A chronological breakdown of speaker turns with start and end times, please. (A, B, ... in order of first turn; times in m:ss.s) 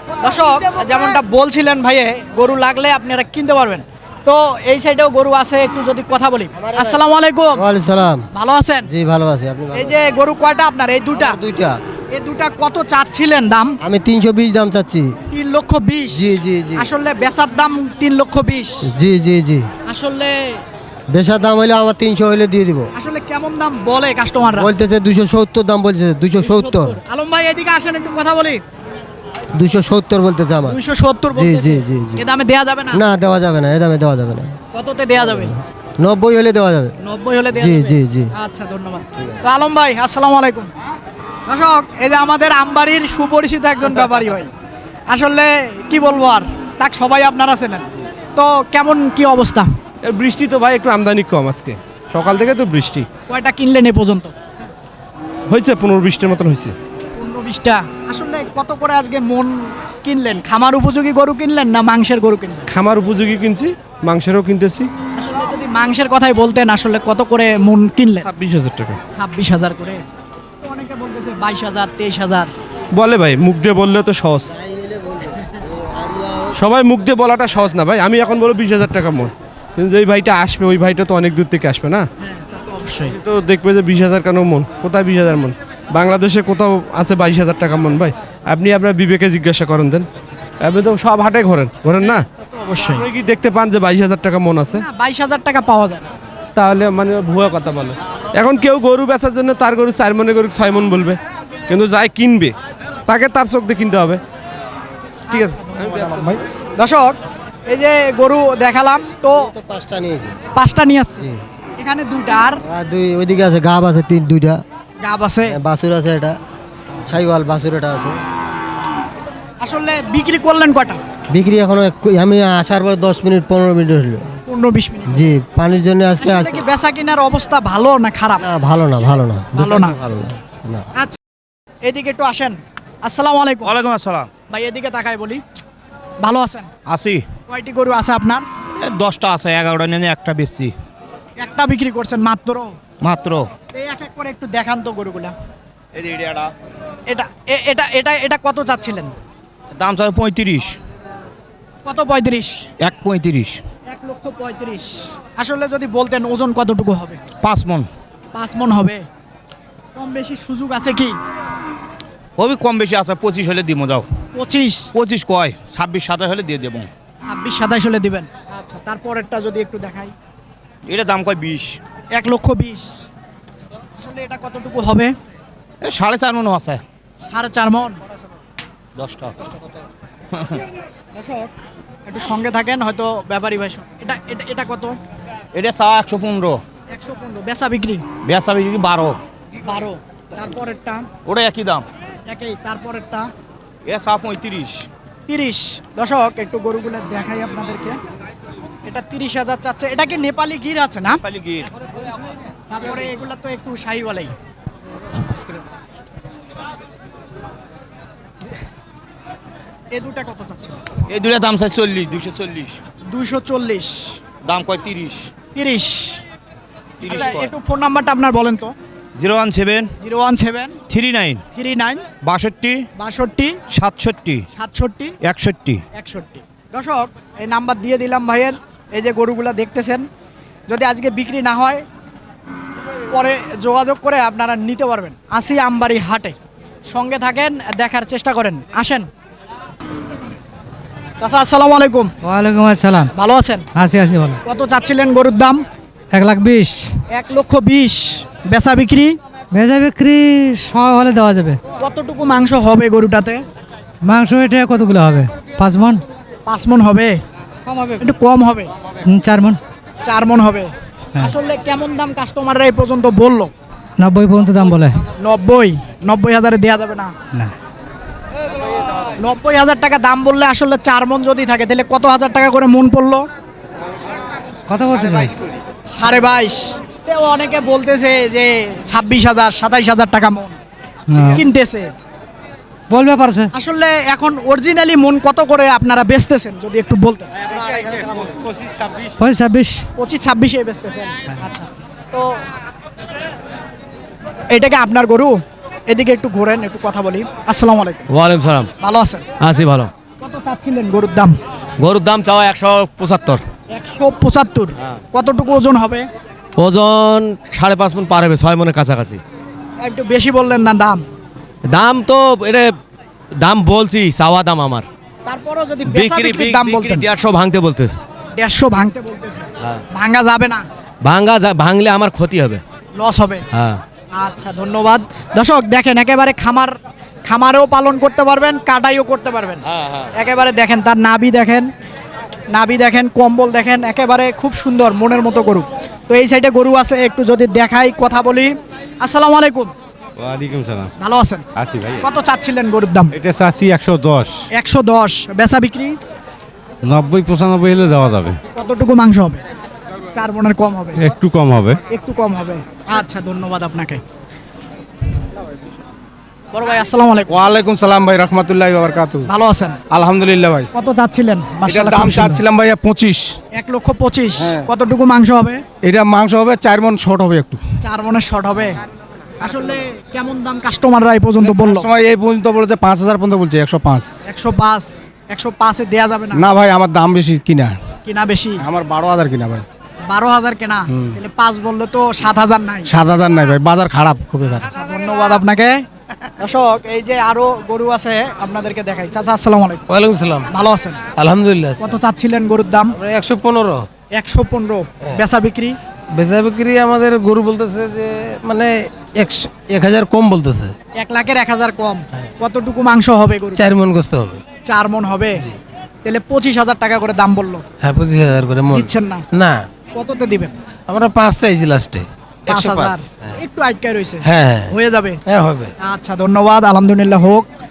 0:00.2-0:07.6 A
0:06.6-0:07.0 B
0:07.6-0:08.2 B
0:08.3-0:08.9 A
0:08.9-0:10.0 B
0:09.8-0:11.4 A
0:11.1-0:11.8 B
0:12.1-0:13.8 A
0:13.8-0:15.1 B
0:15.3-0:18.8 A
0:16.1-0:16.9 B
0:18.9-0:19.7 B
0:19.9-0:20.6 A
0:21.1-0:22.9 B
0:23.0-0:24.7 A
0:24.6-0:27.0 B
0:26.4-0:28.6 A
0:29.6-0:30.8 B
0:30.6-0:33.0 A
0:31.3-0:32.2 B
0:32.9-0:34.6 B
0:34.7-0:35.5 A
0:35.2-0:36.9 B
0:37.0-0:40.7 A
0:37.5-0:38.3 B
0:41.5-0:44.5 A
0:45.1-0:49.7 A
0:50.0-0:53.1 C
0:53.3-0:54.3 A
0:55.5-0:56.7 C
0:57.2-1:02.7 A
1:02.7-1:04.9 C
1:05.2-1:08.3 A
1:08.2-1:09.0 C
1:09.1-1:10.0 A
1:10.6-1:12.5 A
1:13.0-1:14.5 C
1:14.5-1:16.6 B
1:16.6-1:22.1 C
1:22.2-1:23.1 A
1:23.1-1:30.1 C
1:30.6-1:32.2 C
1:32.1-1:33.1 A
1:33.0-1:34.8 C
1:34.8-1:36.1 A
1:36.6-1:42.5 C
1:43.1-1:44.2 C
1:45.3-1:47.2 A
1:45.3-1:46.1 C
1:47.7-1:49.5 A
1:49.3-1:50.4 B
1:50.6-1:51.3 A
1:51.8-1:52.6 A
1:52.6-1:54.6 B
1:55.0-1:55.6 A
1:55.5-1:56.4 B
1:57.1-1:58.2 B
1:59.6-2:01.0 A
2:01.3-2:04.3 B
2:04.5-2:05.3 A
2:05.1-2:06.6 B
2:06.2-2:08.5 A
2:08.4-2:10.8 B
2:09.6-2:10.0 A
2:11.9-2:13.8 A
2:13.6-2:14.3 D
2:14.5-2:15.4 A
2:16.2-2:16.7 A
2:16.9-2:17.2 D
2:17.5-2:18.4 A
2:18.8-2:20.7 D
2:21.4-2:22.7 A
2:23.0-2:23.5 D
2:23.7-2:25.4 A
2:26.0-2:26.5 D
2:27.1-2:29.1 A
2:29.8-2:30.8 D
2:31.9-2:32.6 A
2:32.8-2:33.6 D
2:33.9-2:37.2 A
2:37.4-2:37.9 D
2:38.3-2:39.0 A
2:40.0-2:41.2 A
2:42.4-2:44.1 D
2:44.3-2:44.9 A
2:44.9-2:46.9 D
2:47.2-2:50.1 A
2:50.9-2:51.8 D
2:52.1-2:52.9 A
2:54.0-2:55.1 A
2:55.8-2:56.8 D
2:57.3-2:58.0 A
2:59.0-2:59.3 D
3:01.2-3:01.5 A
3:02.1-3:05.0 A
3:05.6-3:06.6 D
3:06.9-3:08.0 A
3:08.3-3:09.2 D
3:09.6-3:11.1 A
3:11.3-3:11.9 D
3:12.3-3:13.3 A
3:13.9-3:14.8 D
3:15.3-3:18.0 A
3:18.9-3:21.2 A
3:21.2-3:21.7 D
3:22.7-3:24.3 A
3:29.9-3:30.8 A
3:31.1-3:32.8 D
3:33.1-3:34.1 A
3:34.5-3:35.3 D
3:35.5-3:36.2 A
3:37.0-3:37.5 D
3:37.0-3:38.7 A
3:39.2-3:39.9 D
3:40.0-3:40.8 A
3:40.9-3:41.4 D
3:41.5-3:42.1 A
3:42.2-3:42.8 D
3:43.0-3:43.6 A
3:43.7-3:44.4 D
3:44.5-3:45.2 A
3:45.2-3:45.8 D
3:45.9-3:50.1 A
3:50.7-3:51.8 A
3:53.1-3:56.4 A
3:56.9-3:59.1 A
4:01.2-4:02.1 A
4:02.2-4:03.1 E
4:03.2-4:03.7 A
4:03.8-4:04.4 E
4:04.4-4:05.6 A
4:06.1-4:06.8 E
4:07.1-4:09.2 A
4:09.5-4:11.6 E
4:11.8-4:13.4 A
4:14.1-4:16.0 E
4:16.5-4:17.2 A
4:17.7-4:18.0 E
4:18.0-4:18.7 A
4:19.1-4:19.6 E
4:20.0-4:23.5 A
4:24.0-4:25.0 E
4:25.2-4:27.1 A
4:29.2-4:33.2 A
4:34.7-4:35.3 E
4:35.9-4:40.6 A
4:41.1-4:41.4 E
4:41.3-4:41.9 A
4:42.9-4:43.5 E
4:43.5-4:47.3 A
4:49.2-4:49.9 E
4:50.0-4:52.3 A
4:54.5-4:55.4 A
4:55.9-4:58.0 A
4:58.1-4:58.7 F
4:58.8-4:59.2 A
4:59.4-4:59.9 F
5:00.2-5:01.4 A
5:01.8-5:03.4 F
5:03.7-5:06.1 A
5:06.6-5:09.2 F
5:09.8-5:11.0 A
5:11.7-5:12.6 F
5:13.4-5:14.8 F
5:15.3-5:17.1 A
5:16.1-5:17.0 D
5:17.1-5:17.9 F
5:18.4-5:20.6 A
5:21.0-5:22.6 F
5:23.0-5:23.4 A
5:24.2-5:26.7 A
5:27.3-5:29.6 A
5:30.2-5:31.7 A
5:32.5-5:39.7 A
5:41.0-5:41.4 A
5:42.0-5:43.1 A
5:44.5-5:45.9 A
5:48.6-5:49.4 A
5:50.1-5:51.0 A
5:51.9-5:54.0 A
5:56.5-5:57.4 A
5:57.3-5:59.3 C
5:59.3-5:59.8 A
5:59.9-6:00.7 C
6:00.7-6:02.4 A
6:01.7-6:03.3 C
6:03.6-6:05.6 A
6:05.8-6:07.6 C
6:07.8-6:08.8 A
6:09.4-6:11.9 A
6:11.4-6:14.1 C
6:14.3-6:16.4 A
6:16.4-6:17.8 C
6:18.1-6:18.6 A
6:18.6-6:19.6 C
6:20.1-6:22.9 A
6:22.9-6:24.5 C
6:24.7-6:25.8 A
6:26.4-6:29.8 A
6:29.9-6:30.5 G
6:30.5-6:31.0 A
6:31.2-6:31.9 G
6:31.8-6:33.0 A
6:33.0-6:33.8 G
6:34.2-6:35.8 A
6:36.2-6:40.7 G
6:41.0-6:43.7 A
6:43.6-6:44.4 G
6:44.7-6:45.4 A
6:46.0-6:47.6 A
6:47.8-6:49.6 G
6:48.7-6:49.2 A
6:50.0-6:50.5 A
6:50.9-6:53.0 G
6:52.5-6:55.2 A
6:54.2-6:54.7 G
6:55.3-6:55.7 G
6:55.8-6:57.5 A